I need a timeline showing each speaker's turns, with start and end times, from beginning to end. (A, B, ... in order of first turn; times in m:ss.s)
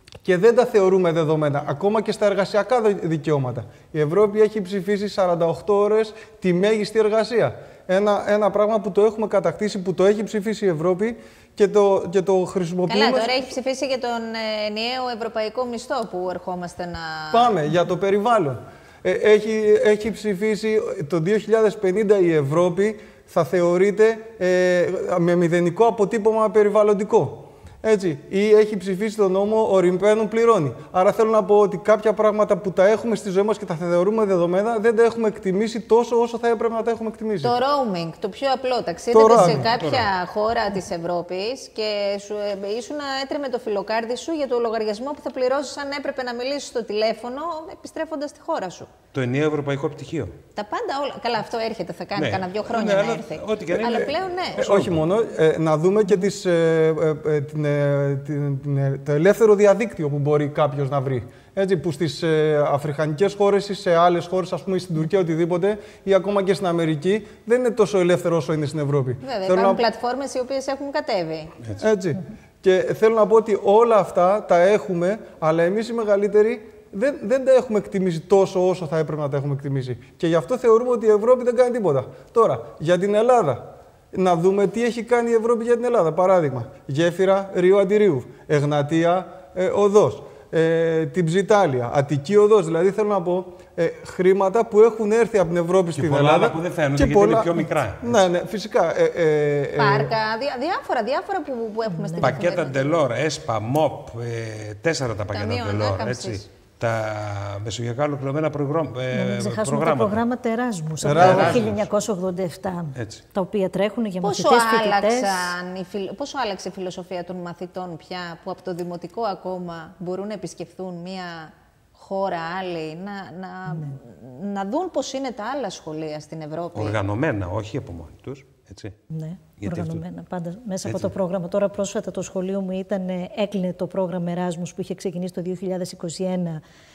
0:00.2-0:13.4 A
0:12.9-0:17.5 B
0:17.3-0:37.5 A
0:37.4-0:48.9 B
0:39.1-0:39.7 A
0:39.4-0:40.1 C
0:49.1-0:50.3 C
0:50.5-0:54.6 B
0:52.2-0:55.0 C
0:53.9-1:09.8 A
1:09.2-1:11.5 B
1:11.8-1:40.1 A
1:35.9-1:38.2 C
1:39.8-1:42.9 B
1:41.9-1:42.4 D
1:42.2-1:50.2 C
1:45.3-1:46.4 B
1:49.1-1:55.5 D
1:51.0-1:51.6 A
1:51.0-1:51.9 C
1:53.0-1:53.2 C
1:54.2-2:07.0 B
2:06.7-2:08.9 C
2:09.1-2:16.6 D
2:09.6-2:10.0 C
2:10.8-2:11.1 C